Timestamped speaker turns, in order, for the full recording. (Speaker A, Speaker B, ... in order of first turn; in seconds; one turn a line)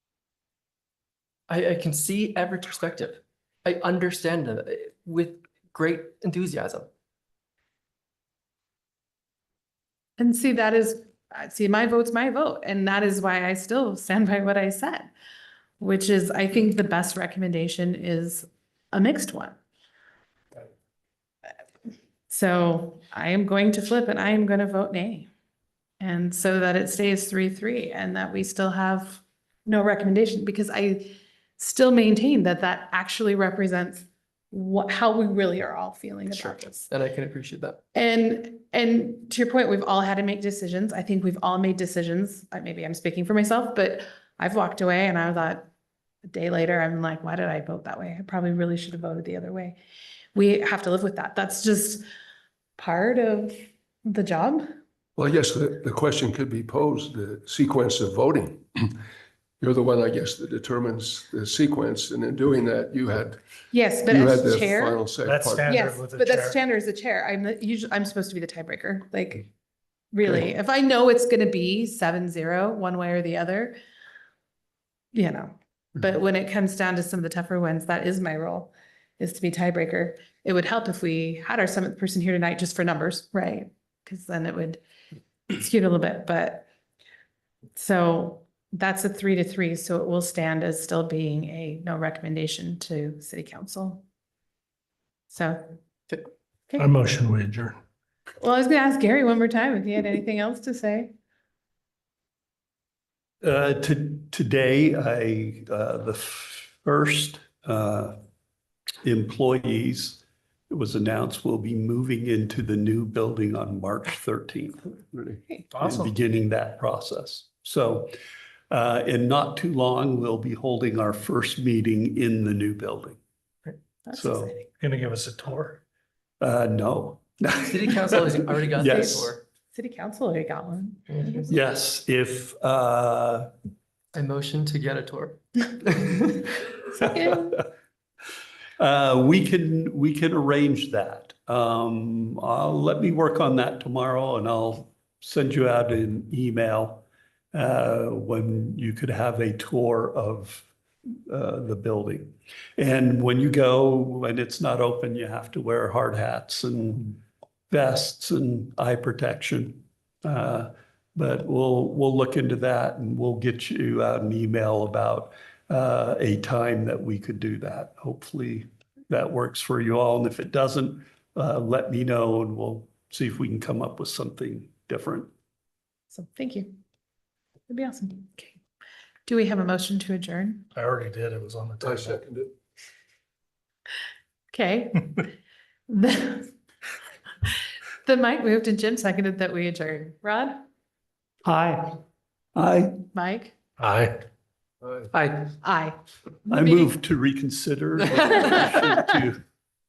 Speaker A: 1.5-6.9
Speaker B: 10.2-15.1
Speaker B: 15.8-19.6
Speaker B: 22.3-25.3
Speaker B: 26.0-36.9
Speaker A: 36.3-37.8
Speaker B: 37.9-45.7
Speaker B: 46.2-49.8
Speaker B: 50.3-52.0
Speaker B: 52.8-53.5
Speaker B: 54.0-54.7
Speaker C: 55.2-58.9
Speaker C: 59.6-63.4
Speaker B: 63.7-65.0
Speaker C: 64.1-65.7
Speaker D: 65.2-66.6
Speaker B: 65.7-69.5
Speaker B: 70.1-73.8
Speaker B: 75.1-84.8
Speaker B: 85.5-86.7
Speaker B: 87.8-94.0
Speaker B: 95.3-95.8
Speaker D: 96.8-97.8
Speaker B: 98.4-101.1
Speaker E: 103.4-108.2
Speaker E: 109.0-118.1
Speaker D: 115.7-116.1
Speaker E: 118.7-123.2
Speaker B: 124.1-124.7
Speaker E: 124.1-124.6
Speaker D: 124.8-125.8
Speaker E: 126.4-129.3
Speaker A: 127.6-129.4
Speaker B: 128.8-131.5
Speaker E: 131.5-133.5
Speaker A: 134.1-136.5
Speaker B: 137.0-137.6
Speaker E: 138.8-150.7
Speaker E: 151.3-157.2
Speaker E: 157.7-175.3
Speaker B: 176.1-176.8
Speaker B: 177.7-178.6
Speaker B: 179.3-180.7
Speaker D: 180.7-182.2
Speaker C: 181.8-182.5
Speaker B: 184.5-185.3
Speaker B: 185.9-186.5
Speaker B: 187.5-190.6
Speaker E: 191.4-192.0
Speaker E: 192.6-193.1
Speaker B: 193.1-193.6
Speaker D: 193.8-194.2
Speaker C: 194.8-195.1
Speaker A: 195.1-195.5
Speaker B: 195.6-196.9
Speaker E: 196.5-199.4